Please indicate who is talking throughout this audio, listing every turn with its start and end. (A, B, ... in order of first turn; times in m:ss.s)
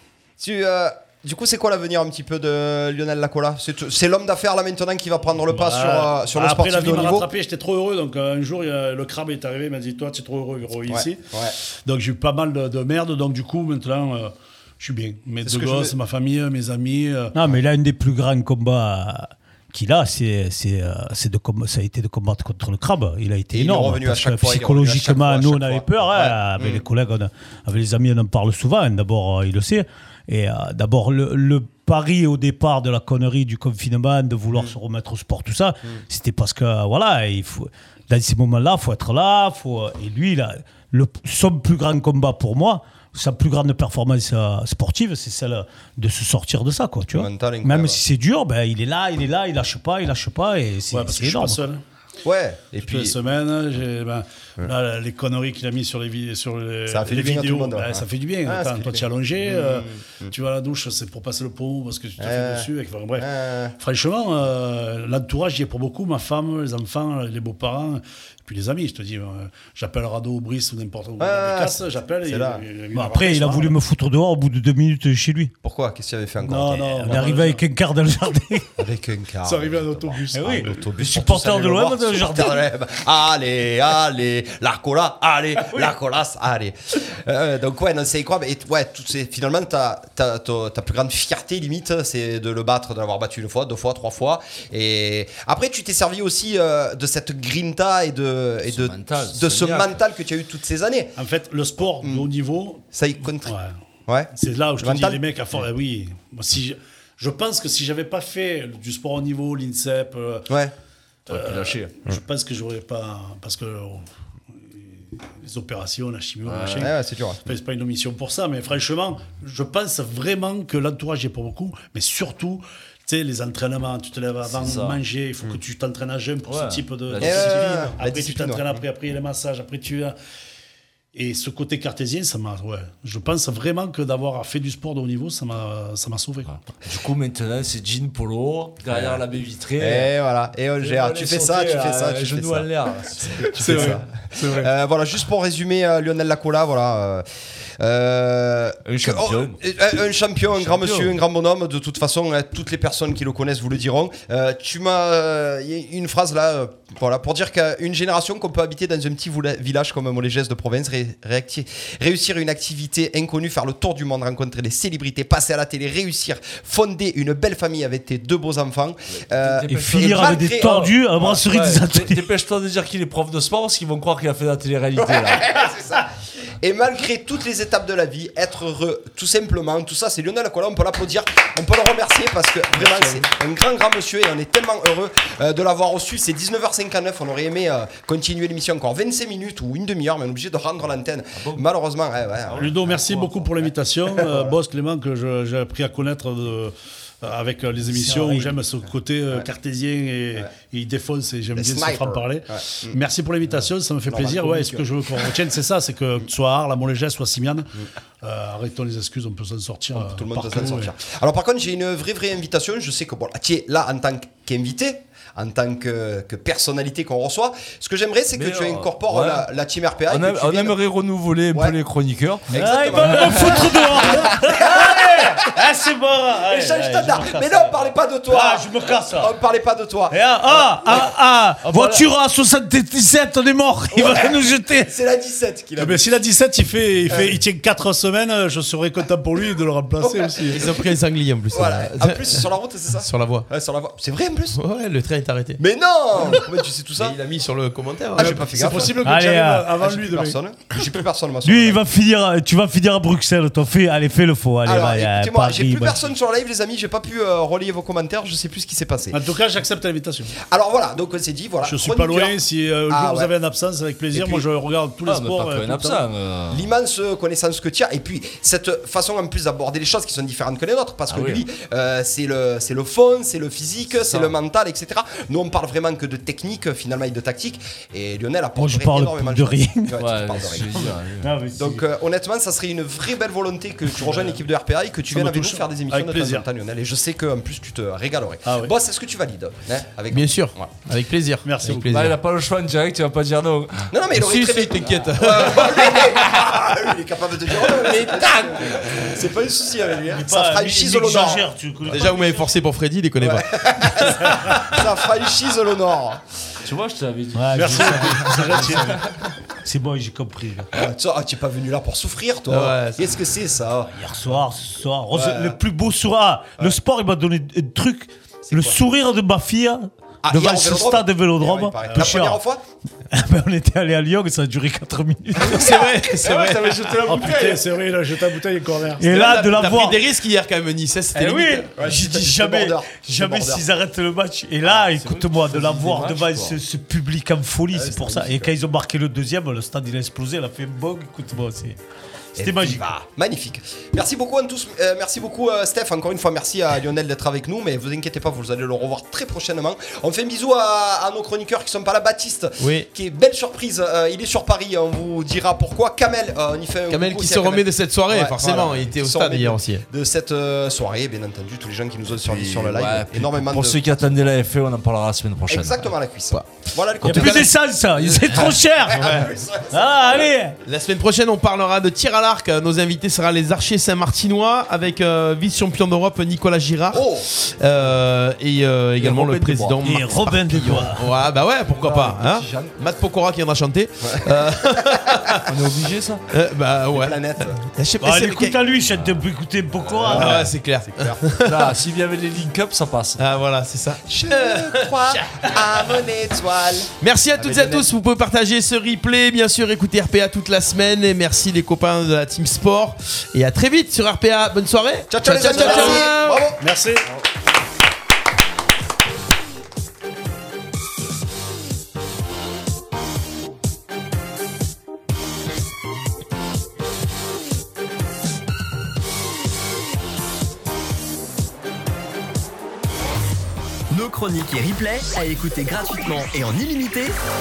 0:00.4-0:07.3 A
0:05.5-0:11.3 B
0:10.9-0:11.6 A
0:11.8-0:17.4 B
0:15.4-0:16.0 A
0:17.4-0:51.6 C
0:23.5-0:26.8 A
0:47.1-0:48.0 A
0:50.9-0:51.8 B
0:52.2-0:53.2 A
0:52.8-1:13.8 B
0:56.9-1:00.3 A
1:02.2-1:03.8 A
1:11.2-1:12.6 A
1:12.9-1:15.5 C
1:15.6-1:17.3 A
1:16.4-1:17.6 B
1:16.8-1:18.7 C
1:18.8-1:41.2 A
1:19.4-1:20.8 B
1:20.3-1:22.7 C
1:38.7-1:40.0 D
1:41.2-1:42.8 B
1:42.0-1:42.3 A
1:42.9-1:43.6 A
1:43.4-1:43.7 B
1:44.1-1:45.2 A
1:44.4-1:50.5 B
1:51.3-1:51.9 D
1:51.3-1:56.9 B
1:56.4-1:56.9 D
1:56.8-1:57.4 A
1:57.4-2:10.2 B
2:04.5-2:05.0 D
2:06.5-2:07.8 D
2:07.2-2:08.7 A
2:11.1-2:16.6 B
2:16.8-2:20.1 D
2:18.9-2:19.2 A
2:19.8-2:27.2 A
2:20.8-2:24.0 D
2:23.6-2:24.7 B
2:27.8-2:51.4 A
2:28.9-2:29.6 D
2:30.6-2:31.2 D
2:49.2-2:55.5 D
2:49.7-2:52.2 C
2:55.0-3:14.6 A
3:11.4-3:11.6 D
3:12.5-3:30.9 B
3:12.6-3:12.9 D
3:18.1-3:18.5 C
3:18.1-3:18.5 A
3:21.6-3:23.0 A
3:24.1-3:25.3 A
3:29.9-3:40.8 A
3:38.3-3:39.5 D
3:40.1-3:43.6 D
3:42.5-3:45.6 A
3:42.5-3:47.8 C
3:46.4-3:51.0 A
3:48.3-3:49.3 C
3:50.1-3:54.9 C
3:51.7-3:52.0 A
3:53.9-3:56.1 A
3:55.8-4:00.7 B
3:57.1-3:57.3 A
4:00.0-4:00.8 A
4:00.5-4:03.5 E
4:01.5-4:04.6 A
4:04.5-4:05.6 E
4:05.6-4:07.2 A
4:07.0-4:09.0 E
4:08.1-4:09.0 A
4:08.2-4:10.4 B
4:09.0-4:09.7 C
4:09.7-4:11.8 A
4:11.4-4:16.0 C
4:14.6-4:19.2 A
4:19.1-4:20.4 B
4:20.4-4:23.3 A
4:21.6-4:26.0 B
4:24.1-4:24.4 A
4:25.0-4:26.7 D
4:26.5-4:41.0 A
4:31.1-4:31.4 D
4:38.6-4:40.0 C
4:40.0-4:41.3 D
4:41.2-4:41.8 C
4:41.6-4:50.7 A
4:43.9-4:44.4 B
4:45.1-4:46.5 B
4:48.5-4:48.7 B
4:50.1-4:52.2 E
4:51.4-4:51.9 B
4:51.8-4:53.9 D
4:53.9-5:02.0 A
4:54.1-4:56.1 E
5:00.1-5:02.5 C
5:01.9-5:04.7 E
5:03.2-5:06.2 A
5:06.6-5:08.8 D
5:07.3-5:08.9 C
5:07.5-5:09.0 B
5:09.6-5:10.7 C
5:10.7-5:14.1 A
5:12.5-5:13.1 E
5:13.9-5:22.4 C
5:15.1-5:15.6 A
5:18.5-5:18.8 A
5:20.2-5:22.6 A
5:21.8-5:22.2 B
5:23.1-5:25.8 C
5:25.4-5:26.8 E
5:26.1-5:27.7 D
5:27.0-5:29.1 B
5:29.0-5:30.0 C
5:29.1-5:31.5 E
5:31.2-5:41.8 C
5:31.4-5:33.7 A
5:34.6-5:36.6 D
5:37.7-5:38.5 A
5:42.4-5:42.8 C
5:42.4-6:03.8 A
5:52.6-5:52.9 E
5:56.9-5:59.8 E
6:02.2-6:05.9 D
6:05.5-6:07.5 A
6:07.0-6:07.5 E
6:07.0-6:09.1 C
6:08.1-6:10.3 A
6:09.0-6:09.3 E
6:09.7-6:10.6 C
6:10.6-6:25.4 E
6:16.9-6:17.3 A
6:19.0-6:19.8 A
6:19.8-6:21.1 C
6:21.7-6:22.7 D
6:24.0-6:25.0 A
6:25.5-6:26.2 D
6:26.3-6:28.6 E
6:26.9-6:27.6 A
6:28.0-6:30.5 C
6:29.8-6:30.3 D
6:30.1-6:31.7 A
6:30.1-6:31.7 E
6:31.5-6:33.2 D
6:33.2-6:35.2 E
6:34.1-6:37.9 A
6:37.0-6:46.4 E
6:45.1-6:47.2 A
6:45.4-6:46.1 B
6:46.6-6:47.1 B
7:03.9-7:07.2 F